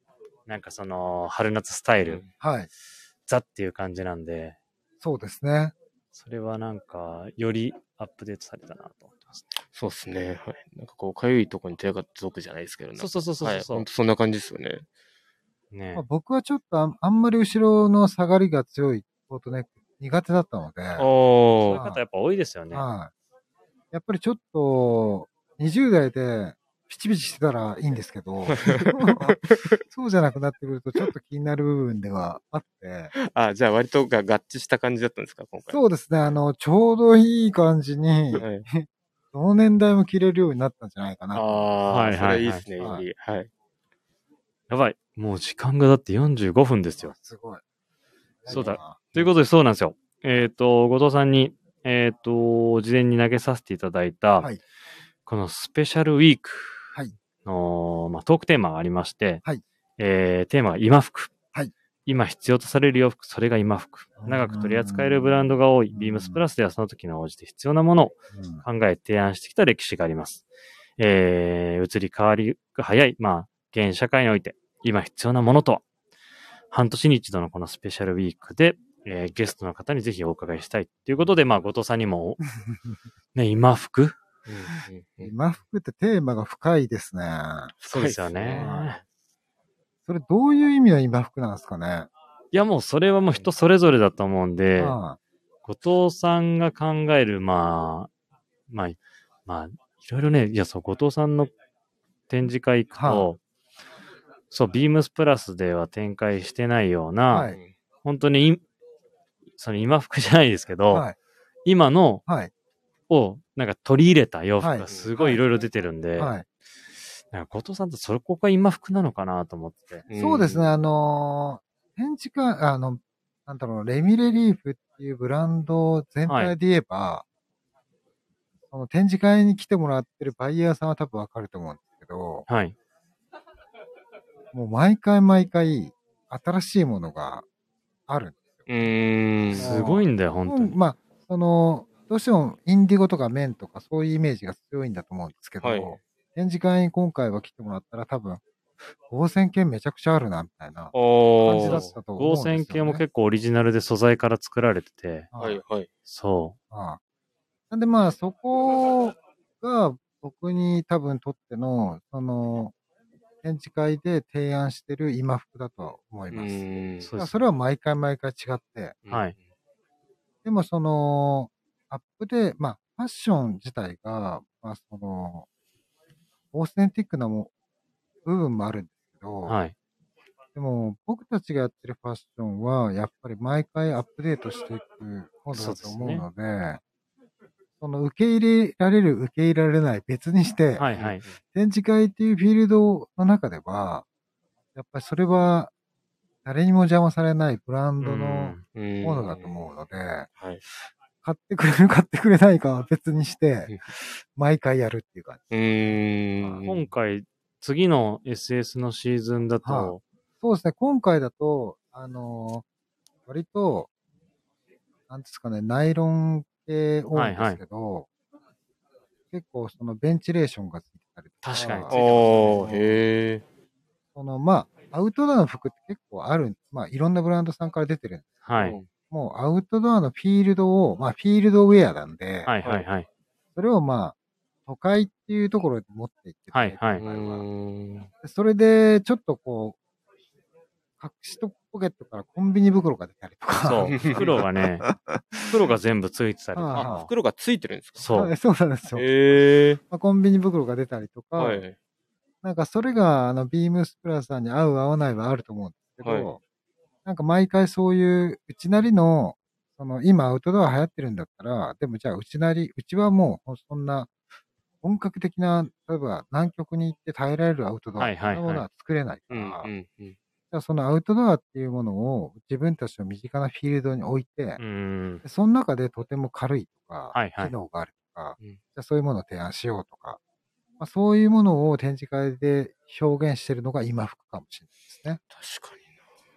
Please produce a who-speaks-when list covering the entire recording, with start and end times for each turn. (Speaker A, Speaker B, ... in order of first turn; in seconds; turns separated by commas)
Speaker A: 0.5-2.2, Speaker B: 2.0-2.3, Speaker C: 2.4-2.7, Speaker A: 3.3-4.6, Speaker C: 5.0-5.7, Speaker A: 6.1-9.5, Speaker B: 9.7-14.8, Speaker A: 13.0-13.9, Speaker A: 15.7-16.0, Speaker C: 15.9-21.1, Speaker B: 20.9-21.8, Speaker A: 21.7-22.8, Speaker C: 21.7-22.0, Speaker C: 22.7-23.1, Speaker C: 23.9-29.4, Speaker B: 28.5-29.8, Speaker C: 29.9-33.1, Speaker B: 33.1-35.8, Speaker C: 35.7-41.7, Speaker B: 38.4-38.6, Speaker B: 41.3-43.5, Speaker A: 41.9-42.6, Speaker C: 42.8-43.0, Speaker A: 44.7-47.1, Speaker C: 47.0-47.6, Speaker C: 48.4-49.0, Speaker B: 48.5-49.2, Speaker A: 48.5-54.5, Speaker A: 55.2-59.4, Speaker A: 60.0-61.3, Speaker A: 62.0-70.4, Speaker C: 64.2-65.3, Speaker C: 65.9-66.4, Speaker C: 68.3-68.6, Speaker A: 71.0-75.8, Speaker A: 76.7-82.4, Speaker A: 83.3-84.2, Speaker B: 84.5-85.3, Speaker C: 85.2-87.7, Speaker B: 87.8-88.8, Speaker A: 87.9-89.0, Speaker C: 88.5-89.0, Speaker C: 90.0-92.1, Speaker A: 92.5-95.0, Speaker C: 94.8-95.2, Speaker A: 95.6-98.1, Speaker A: 98.7-101.5, Speaker A: 102.3-103.4, Speaker C: 103.0-103.3, Speaker A: 104.5-107.5, Speaker C: 107.3-107.6, Speaker B: 107.5-107.7, Speaker A: 108.0-108.6, Speaker A: 109.6-111.1, Speaker C: 110.9-111.2, Speaker A: 111.6-112.2, Speaker A: 113.1-116.3, Speaker C: 114.6-115.4, Speaker B: 114.9-115.2, Speaker C: 116.2-116.4, Speaker A: 117.3-120.0, Speaker B: 120.1-120.7, Speaker C: 120.1-127.2, Speaker A: 126.2-126.5, Speaker C: 128.7-132.5, Speaker A: 132.5-132.7, Speaker C: 134.5-137.4, Speaker C: 138.1-138.6, Speaker B: 138.7-139.7, Speaker C: 139.5-148.4, Speaker A: 139.5-140.7, Speaker B: 145.6-146.0, Speaker C: 149.1-153.0, Speaker B: 150.9-151.9, Speaker A: 151.6-155.3, Speaker C: 155.3-155.6, Speaker B: 155.4-155.9, Speaker A: 156.1-156.6, Speaker C: 156.7-157.0, Speaker C: 157.7-162.7, Speaker C: 163.4-166.6, Speaker B: 166.3-167.1, Speaker A: 167.0-167.4, Speaker C: 167.1-169.0, Speaker B: 169.0-169.3, Speaker A: 169.1-169.3, Speaker C: 170.4-175.5, Speaker C: 176.5-177.5, Speaker C: 178.2-179.6, Speaker A: 179.4-179.7, Speaker C: 180.5-186.8, Speaker A: 185.5-186.2, Speaker C: 187.8-190.9, Speaker A: 190.8-191.2, Speaker B: 190.9-191.4, Speaker C: 191.5-194.0, Speaker C: 194.7-195.7, Speaker C: 196.4-200.3, Speaker A: 198.0-198.6, Speaker B: 198.7-199.7, Speaker B: 200.4-200.6, Speaker C: 201.2-206.6, Speaker B: 205.5-206.9, Speaker A: 206.6-210.0, Speaker C: 209.6-212.6, Speaker C: 213.3-213.9, Speaker C: 215.1-218.1, Speaker A: 217.1-217.6, Speaker C: 219.3-223.0, Speaker A: 221.4-221.9, Speaker B: 221.9-223.4, Speaker C: 224.1-232.5, Speaker A: 228.4-228.8, Speaker B: 228.6-228.9, Speaker A: 232.4-233.1, Speaker C: 233.5-234.1, Speaker C: 234.7-237.4, Speaker A: 236.5-237.0, Speaker B: 237.0-238.1, Speaker C: 238.2-239.8, Speaker C: 241.0-244.5, Speaker A: 243.6-244.9, Speaker B: 243.8-244.4, Speaker C: 245.0-245.3, Speaker A: 245.5-247.1, Speaker C: 246.5-247.1, Speaker B: 246.7-248.1, Speaker A: 248.0-248.3, Speaker C: 248.1-251.6, Speaker B: 248.9-249.8, Speaker B: 251.4-251.7, Speaker C: 252.4-256.4, Speaker B: 256.0-256.3, Speaker C: 257.0-264.1, Speaker C: 264.8-269.7, Speaker A: 268.0-268.6, Speaker B: 269.3-270.2, Speaker C: 270.5-274.6, Speaker A: 274.6-275.2, Speaker C: 275.2-280.2, Speaker A: 277.1-277.5, Speaker C: 280.8-285.2, Speaker B: 285.3-285.9